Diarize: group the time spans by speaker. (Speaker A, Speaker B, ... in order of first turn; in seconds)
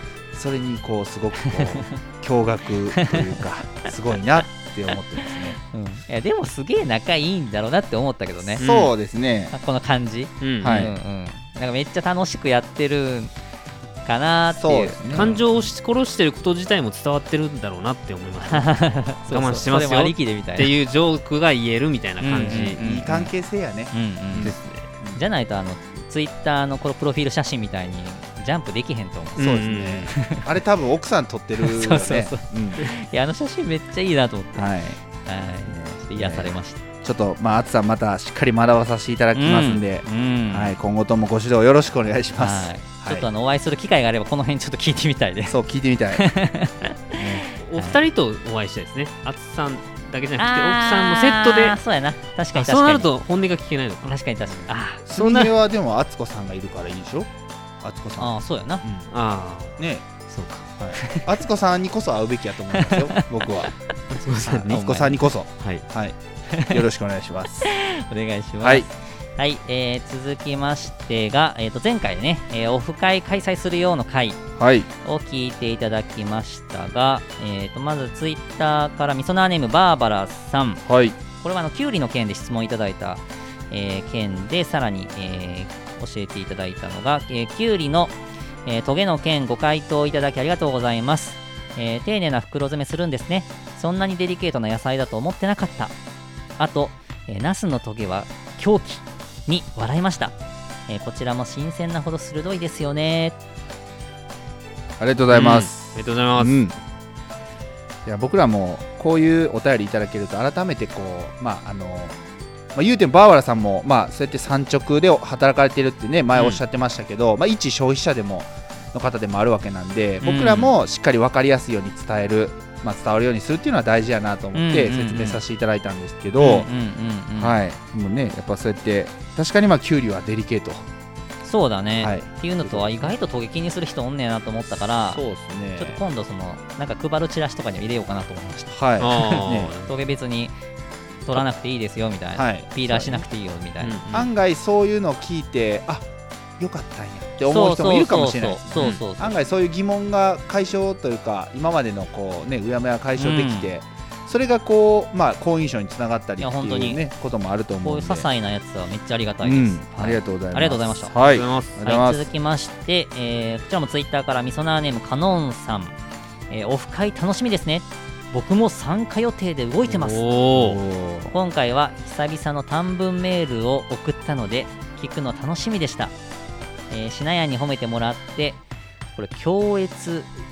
Speaker A: 0.3-5.6, 8.6-9.5, 10.6-10.9, 14.5-15.4, 19.3-19.8, 22.5-25.2, 29.4-32.9, 34.5-35.0, 35.7-43.3, 45.4-46.3, 47.2-47.5, 55.0-57.3, 57.8-59.1, 59.8-60.0, 60.8-63.7, 64.5-66.2, 66.7-67.7, 68.6-68.9, 74.6-74.9, 80.9-81.2, 105.0-106.7, 108.0-112.2, 112.7-126.7, 127.4-130.9, 132.0-133.1, 135.1-136.0, 138.7-139.7, 142.4-143.3, 144.1-158.3, 159.4-162.3, 170.5-171.3
Speaker B: 1.5-2.0, 2.9-3.2, 5.2-8.6, 9.5-13.3, 14.1-15.5, 18.5-20.7, 22.2-23.3, 23.9-24.6, 25.1-29.5, 30.1-30.5, 31.6-34.7, 35.2-36.8, 39.4-40.8, 42.4-45.6, 46.1-48.0, 50.4-53.1, 54.1-55.1, 58.2-58.9, 61.0-61.3, 62.7-63.7, 64.7-65.1, 66.5-66.8, 67.6-74.4, 75.0-80.8, 81.4-88.2, 88.7-95.9, 96.6-100.3, 100.9-103.4, 120.2-120.7, 124.5-125.4, 126.4-127.6, 131.4-135.2, 135.8-138.7, 139.8-140.5, 141.2-144.0, 147.5-149.3, 153.2-153.7, 156.4-157.0, 157.8-161.1, 161.8-166.0, 166.5-170.3, 171.3-176.1, 176.9-178.6, 179.2-180.3
Speaker C: 8.6-8.9, 10.4-10.8, 15.1-22.8, 24.4-24.9, 29.4-30.1, 47.5-51.8, 52.5-54.2, 55.1-55.5, 59.1-60.7, 64.1-65.8, 105.3-106.7, 116.3-116.6, 139.0-139.9, 143.8-144.3, 148.8-149.0, 161.2-161.8, 169.9-170.8